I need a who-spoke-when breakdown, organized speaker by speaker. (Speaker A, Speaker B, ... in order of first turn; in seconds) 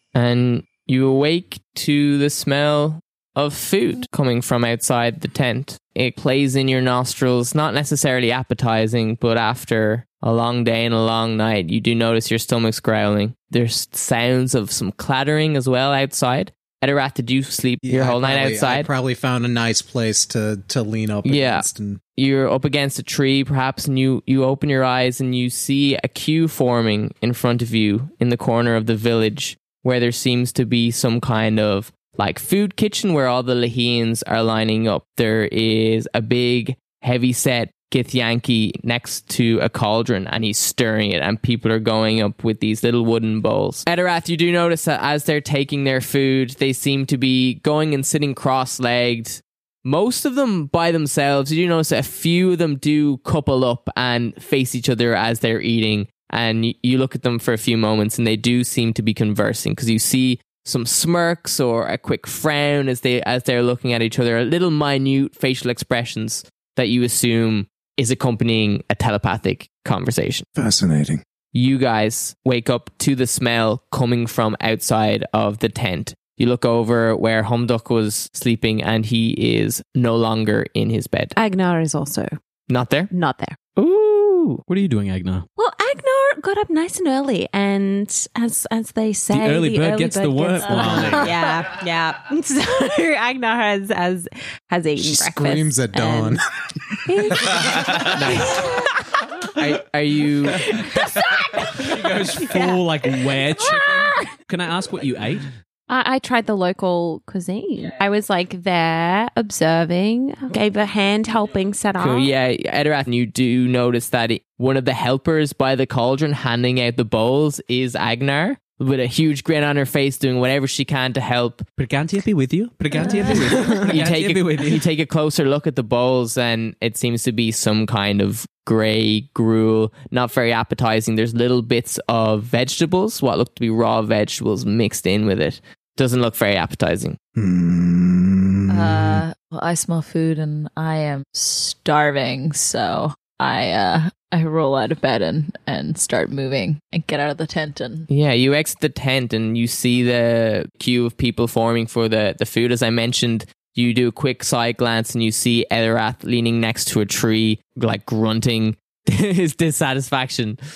Speaker A: 0.1-18.9, 21.2-70.5, 71.5-81.3, 82.7-83.1, 98.2-98.6, 99.5-100.9, 112.0-121.7, 123.6-137.2, 148.1-160.6
Speaker B: 17.8-22.0, 70.5-71.2, 95.0-96.5, 137.3-139.2
Speaker C: 81.3-82.3, 83.1-83.5, 85.6-96.4, 97.0-98.8, 100.8-101.2, 105.9-112.3
Speaker D: 83.8-85.5, 89.3-91.4, 101.6-105.5, 121.8-124.9
Speaker E: 138.7-148.1